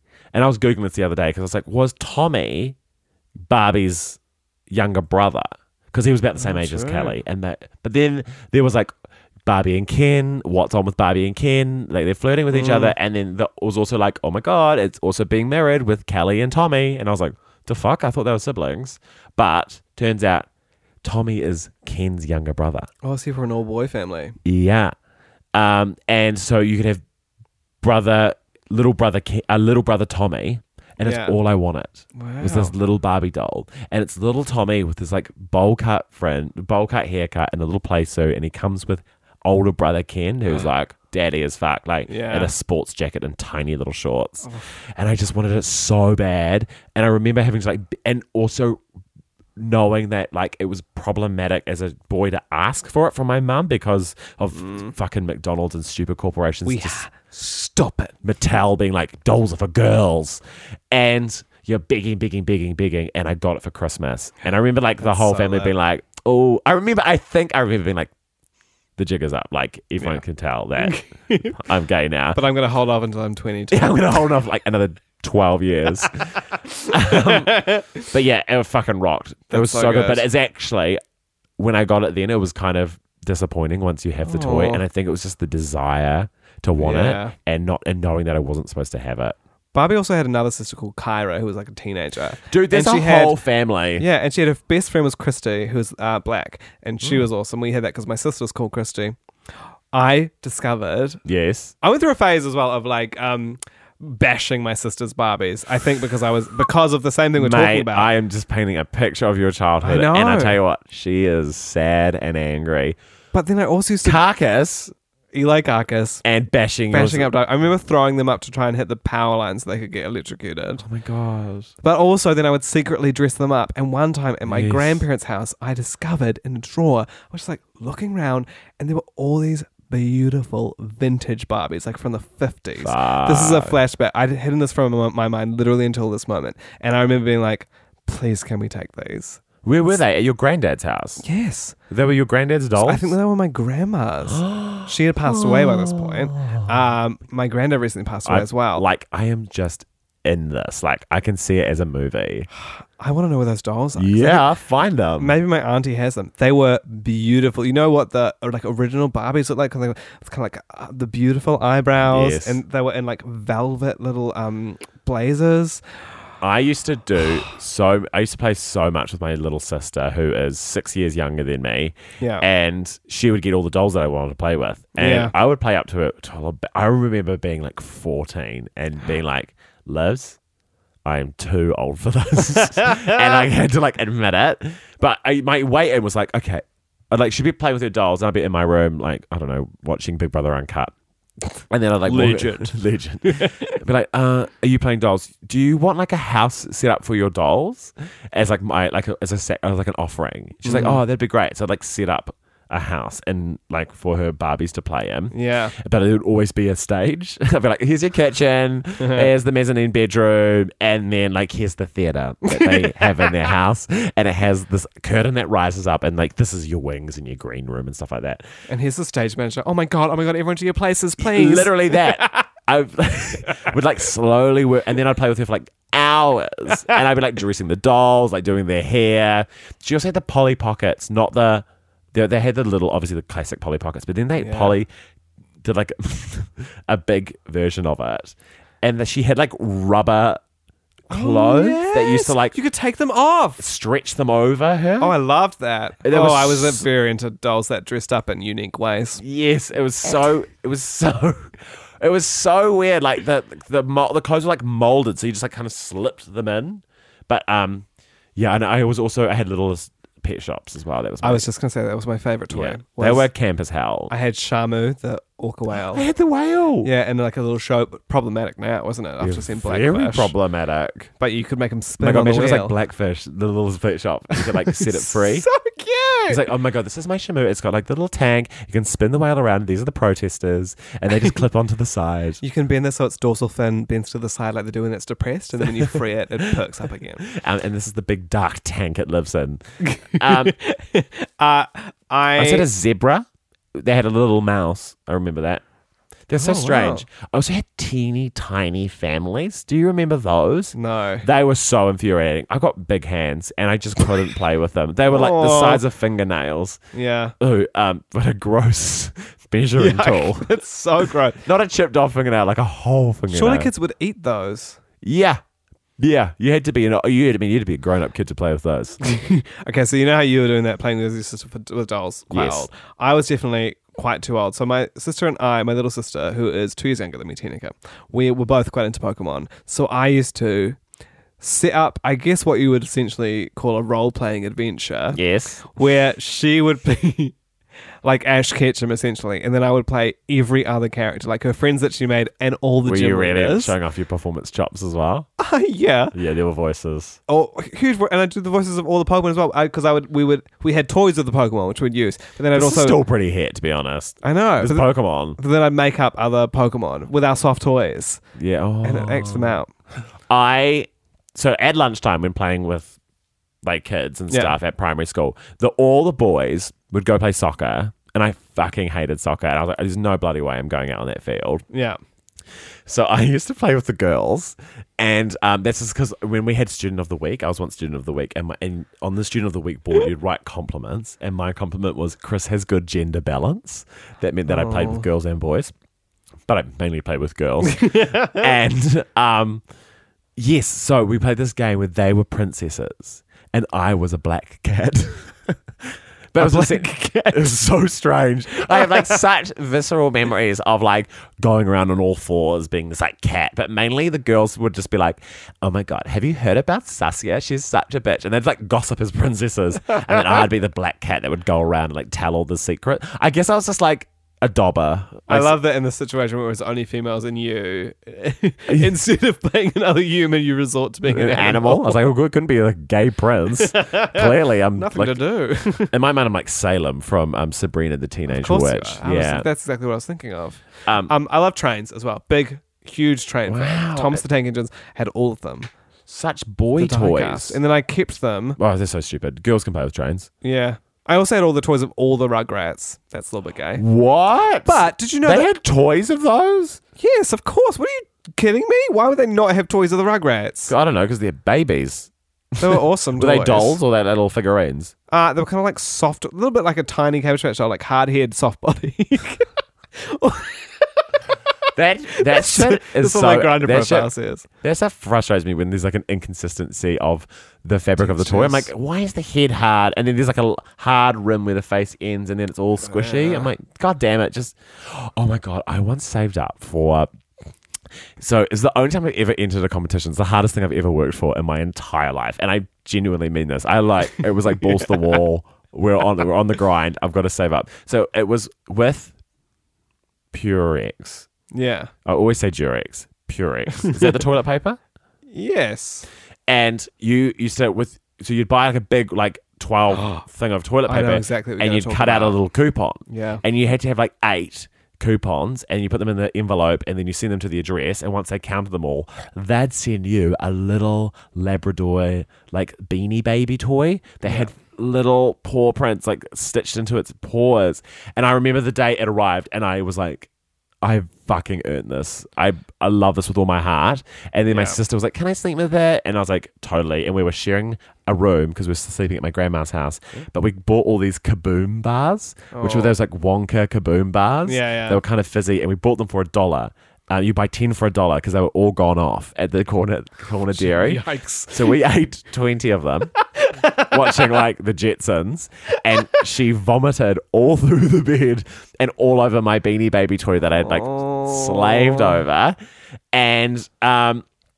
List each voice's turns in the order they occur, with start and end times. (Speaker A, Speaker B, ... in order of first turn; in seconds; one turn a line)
Speaker A: 0.3-2.8
Speaker A: 3.5-4.2
Speaker A: 4.7-8.9
Speaker B: 6.4-7.2
Speaker A: 9.4-20.5
Speaker B: 12.5-12.9
Speaker A: 21.0-22.9
Speaker B: 23.0-24.4
Speaker A: 24.4-24.9
Speaker A: 25.5-27.0
Speaker A: 27.8-48.8
Speaker B: 31.0-31.4
Speaker B: 32.1-32.7
Speaker B: 42.1-42.5
Speaker A: 49.6-57.0
Speaker B: 54.6-54.9
Speaker B: 56.6-58.1
Speaker A: 58.2-60.4
Speaker A: 60.9-68.1
Speaker B: 65.0-65.7
Speaker A: 69.0-72.4
Speaker B: 70.8-71.6
Speaker B: 72.3-74.3
Speaker A: 73.7-76.3
Speaker B: 76.0-78.1
Speaker A: 76.9-81.0
Speaker B: 79.5-80.2
Speaker A: 81.6-89.3
Speaker B: 84.2-84.8
Speaker B: 86.8-87.3
Speaker B: 89.7-93.4
Speaker A: 92.5-94.0
Speaker B: 94.0-99.2
Speaker B: 99.9-101.2
Speaker A: 101.2-101.7
Speaker B: 101.8-108.1
Speaker A: 107.4-113.0
Speaker B: 109.8-110.6
Speaker B: 113.3-114.2
Speaker A: 114.0-114.9
Speaker B: 115.3-116.2
Speaker A: 116.2-117.3
Speaker B: 116.9-120.8
Speaker A: 120.8-121.7
Speaker B: 121.8-139.4
Speaker A: 124.5-125.0
Speaker A: 132.8-133.8
Speaker A: 139.6-141.2
Speaker B: 141.2-141.8
Speaker A: 141.9-143.1
Speaker B: 142.8-148.8
Speaker A: 144.3-146.7
Speaker A: 148.2-152.5
Speaker B: 152.6-154.4
Speaker A: 154.0-155.3
Speaker B: 155.2-165.8
Speaker A: 162.0-162.6
Speaker A: 166.4-180.4
Speaker B: 172.2-172.4
Speaker B: 175.0-175.3
Speaker A: 181.0-190.9
Speaker B: 182.8-183.4
Speaker A: 191.5-218.4
Speaker B: 192.0-192.7
Speaker B: 193.2-193.8
Speaker B: 200.6-201.0
Speaker B: 205.3-205.7
Speaker B: 209.0-209.3
Speaker B: 212.5-213.5
Speaker B: 218.7-222.4
Speaker A: 221.2-234.9
Speaker B: 223.5-223.7
Speaker B: 226.7-227.0
Speaker B: 234.4-234.8
Speaker A: 235.6-240.4
Speaker A: 241.1-242.6
Speaker B: 241.1-243.6
Speaker A: 243.6-245.1
Speaker B: 245.0-249.2
Speaker A: 246.0-246.9
Speaker A: 249.2-261.4
Speaker B: 261.2-263.3
Speaker A: 262.5-264.1
Speaker B: 264.1-266.1
Speaker A: 265.8-266.9
Speaker B: 266.8-270.3
Speaker A: 269.2-271.1
Speaker B: 271.2-272.7
Speaker A: 272.0-275.5
Speaker B: 274.4-276.4
Speaker A: 276.3-282.4
Speaker B: 282.4-287.2
Speaker A: 287.2-290.6
Speaker B: 289.8-292.7
Speaker A: 292.4-295.6
Speaker A: 296.3-306.8
Speaker B: 296.4-297.0
Speaker B: 300.7-301.2
Speaker B: 305.1-305.8
Speaker B: 306.9-307.3
Speaker A: 307.4-310.5
Speaker B: 309.8-311.4
Speaker A: 311.0-313.7
Speaker B: 313.3-314.8
Speaker A: 315.0-315.4
Speaker A: 316.0-319.0
Speaker B: 319.0-330.8
Speaker A: 322.3-322.7
Speaker B: 331.4-337.4
Speaker A: 335.1-335.7
Speaker B: 338.0-343.7
Speaker A: 342.8-345.3
Speaker B: 345.4-346.1
Speaker A: 346.1-347.2
Speaker B: 347.3-353.0
Speaker A: 352.5-355.4
Speaker B: 354.2-358.2
Speaker A: 358.4-359.6
Speaker B: 358.8-359.7
Speaker A: 360.3-362.9
Speaker A: 363.6-371.6
Speaker B: 364.3-364.6
Speaker B: 371.7-372.0
Speaker A: 372.9-385.7
Speaker B: 384.5-385.1
Speaker A: 386.5-389.6
Speaker B: 387.6-388.5
Speaker A: 390.4-395.6
Speaker A: 396.3-415.6
Speaker B: 396.4-397.6
Speaker B: 398.5-399.2
Speaker B: 409.9-410.5
Speaker B: 415.3-422.0
Speaker A: 418.7-418.9
Speaker A: 421.1-425.2
Speaker B: 423.6-425.9
Speaker A: 425.9-429.5
Speaker B: 428.3-435.7
Speaker A: 430.9-431.1
Speaker A: 433.5-434.2
Speaker A: 436.1-437.6
Speaker B: 436.8-438.6
Speaker A: 438.6-440.3
Speaker B: 440.4-443.8
Speaker A: 443.8-446.8
Speaker B: 444.6-445.5
Speaker B: 447.0-450.7
Speaker A: 450.7-452.1
Speaker B: 452.6-453.8
Speaker A: 452.6-454.9
Speaker B: 455.1-461.2
Speaker A: 461.7-464.1
Speaker B: 462.2-464.5
Speaker A: 464.6-477.1
Speaker B: 468.0-468.7
Speaker B: 472.8-473.5
Speaker A: 478.2-489.1
Speaker B: 484.9-485.2
Speaker A: 490.3-491.3
Speaker B: 491.5-491.9
Speaker A: 492.0-494.8
Speaker B: 493.8-494.2
Speaker B: 495.3-496.1
Speaker A: 496.5-520.3
Speaker B: 499.9-500.2
Speaker B: 500.9-502.3
Speaker B: 503.1-503.4
Speaker A: 520.8-543.1
Speaker B: 524.5-524.8
Speaker B: 532.5-532.9
Speaker B: 534.5-535.0
Speaker B: 540.5-541.8
Speaker B: 543.4-544.4
Speaker A: 543.8-552.6
Speaker B: 550.6-552.2
Speaker A: 553.1-554.2